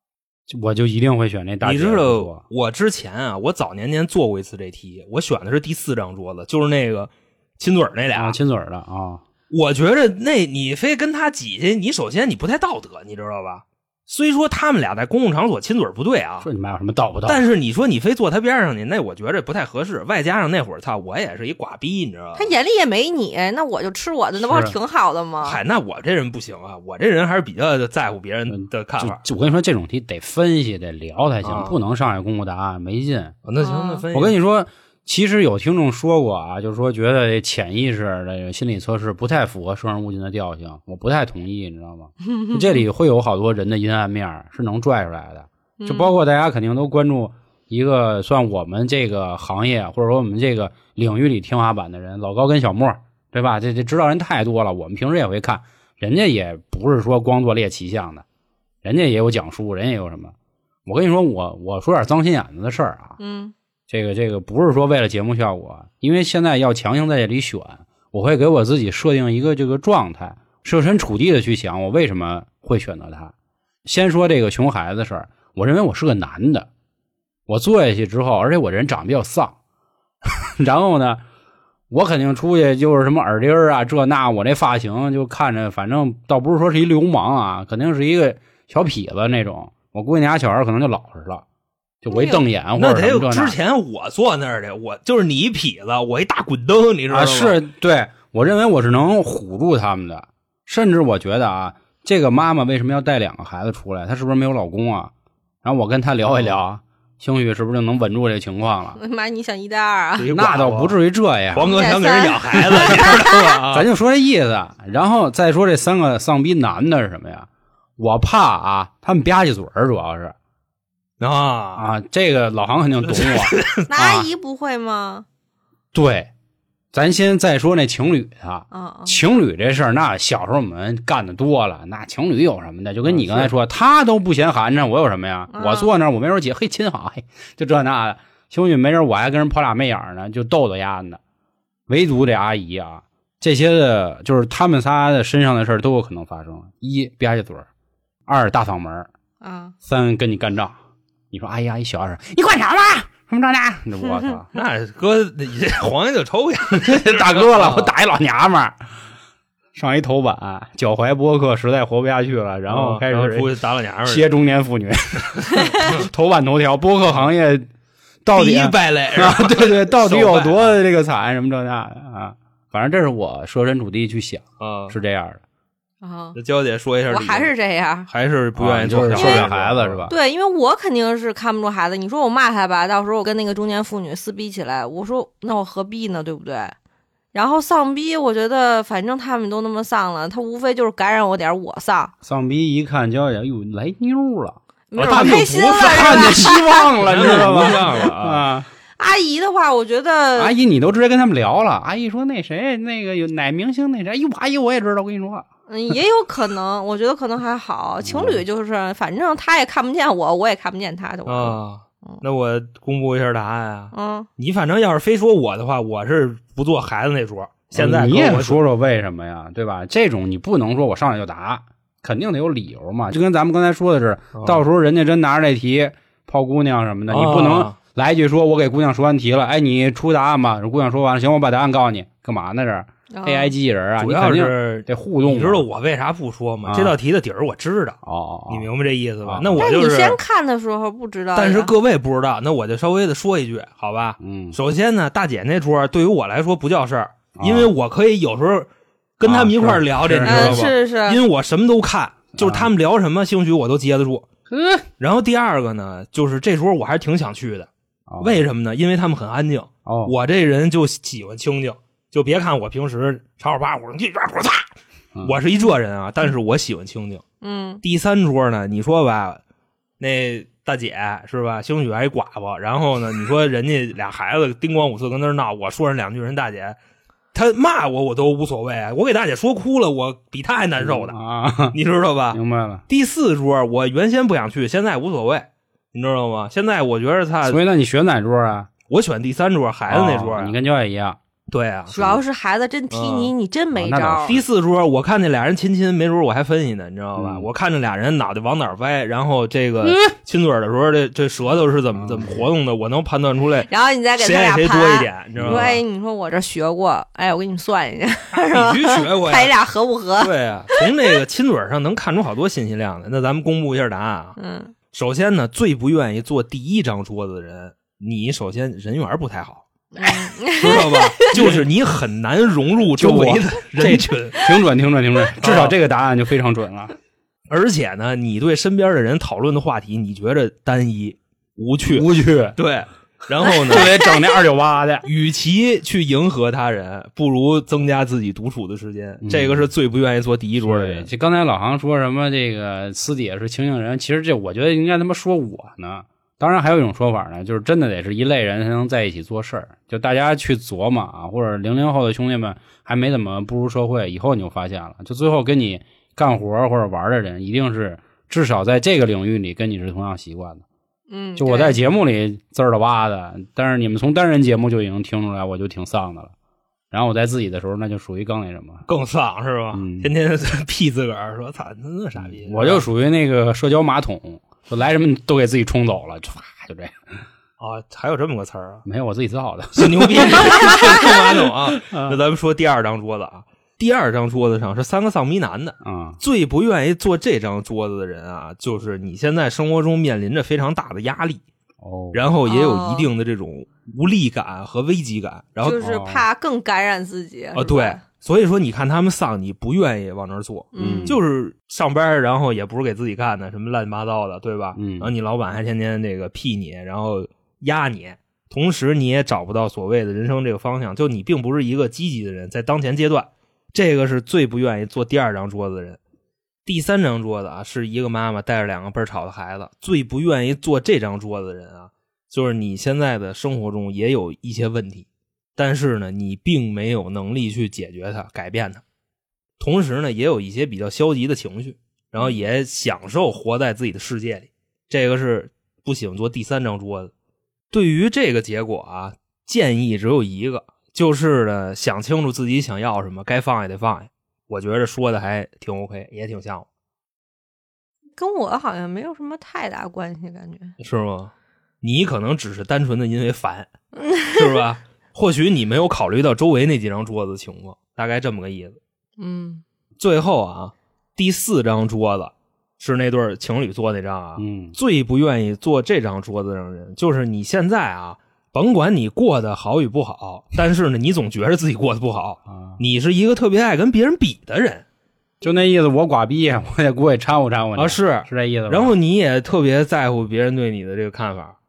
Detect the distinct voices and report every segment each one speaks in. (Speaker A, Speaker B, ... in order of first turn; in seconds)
Speaker A: 0.5-2.4, 8.1-9.2, 16.4-17.5, 24.4-24.7, 28.5-33.3, 34.1-58.2, 58.8-60.3, 60.9-63.2, 63.9-73.3, 73.8-76.7, 77.5-79.5, 80.2-81.2, 81.9-91.4, 92.0-93.6, 97.1-105.1, 105.6-109.0, 110.3-111.7, 112.5-113.2, 113.7-120.3, 121.8-124.3, 125.9-126.3, 126.9-141.2, 141.9-147.7, 148.3-149.1, 149.8-150.8, 151.3-154.5, 156.7-158.8, 159.7-163.5, 164.0-167.7, 168.2-175.4, 178.6-180.1, 192.2-198.7, 200.3-205.4, 208.0-208.4, 217.7-235.7, 236.7-237.0, 238.0-238.7, 239.2-239.6, 244.2-244.6, 247.3-247.7, 249.2-250.7, 252.4-252.7, 254.5-254.8, 258.1-258.4, 259.9-260.1, 280.8-281.8, 282.3-282.8, 287.4-288.7, 289.9-291.2, 291.9-292.2, 293.7-294.4, 297.1-297.5, 299.8-300.1, 301.9-302.4, 305.4-305.7, 321.3-321.6, 323.0-326.9, 331.9-332.6, 333.6-335.1, 339.2-339.7, 340.6-360.6, 361.4-366.3, 366.9-368.9, 369.7-370.1, 372.2-377.0, 378.9-381.2, 381.8-382.2, 385.8-386.2, 391.8-392.2, 395.8-396.2, 400.8-401.2, 404.8-405.1, 464.4-464.8, 472.5-472.8, 475.4-478.9
Speaker B: 1.6-8.4, 9.5-16.5, 17.2-22.5, 25.4-29.2, 31.4-31.8, 33.4-34.4, 92.8-97.6, 110.2-111.0, 111.5-113.9, 121.2-121.9, 123.0-123.9, 133.0-133.5, 154.5-157.9, 162.7-164.3, 168.3-170.8, 174.6-174.9, 176.3-177.5, 178.1-180.1, 194.9-198.5, 211.3-218.6, 224.3-224.6, 227.1-227.8, 234.0-240.2, 241.3-254.2, 255.0-257.7, 258.2-264.7, 265.2-267.2, 267.8-269.4, 270.0-276.8, 277.3-281.2, 281.7-287.6, 288.9-290.5, 291.5-292.0, 292.9-293.3, 294.2-305.8, 308.3-309.5, 310.2-314.4, 314.9-324.5, 325.4-325.8, 327.5-334.0, 335.0-341.1, 368.9-372.8, 377.6-378.8, 379.7-391.4, 392.1-395.8, 397.5-416.0, 416.6-428.8, 429.6-437.1, 437.7-446.6, 450.8-453.7, 454.3-458.8, 460.0-474.8, 477.8-481.6
Speaker C: 22.4-25.6, 33.6-34.0, 45.8-46.1, 63.2-63.5, 92.1-92.4, 109.0-110.3, 111.5-113.4, 123.9-125.2, 128.7-129.2, 135.5-135.9, 149.4-149.7, 176.0-176.4, 177.1-178.1, 179.1-179.5, 180.1-186.7, 187.3-192.1, 194.9-197.7, 199.0-200.5, 205.7-211.6, 213.9-214.3, 233.1-233.5, 239.6-241.7, 250.2-251.2, 267.4-267.8, 291.9-294.4, 303.7-310.9, 314.4-314.7, 319.9-321.3, 361.1-361.8, 392.5-393.1, 395.6-398.0, 400.7-401.1, 448.2-450.7, 454.0-454.4, 459.2-459.6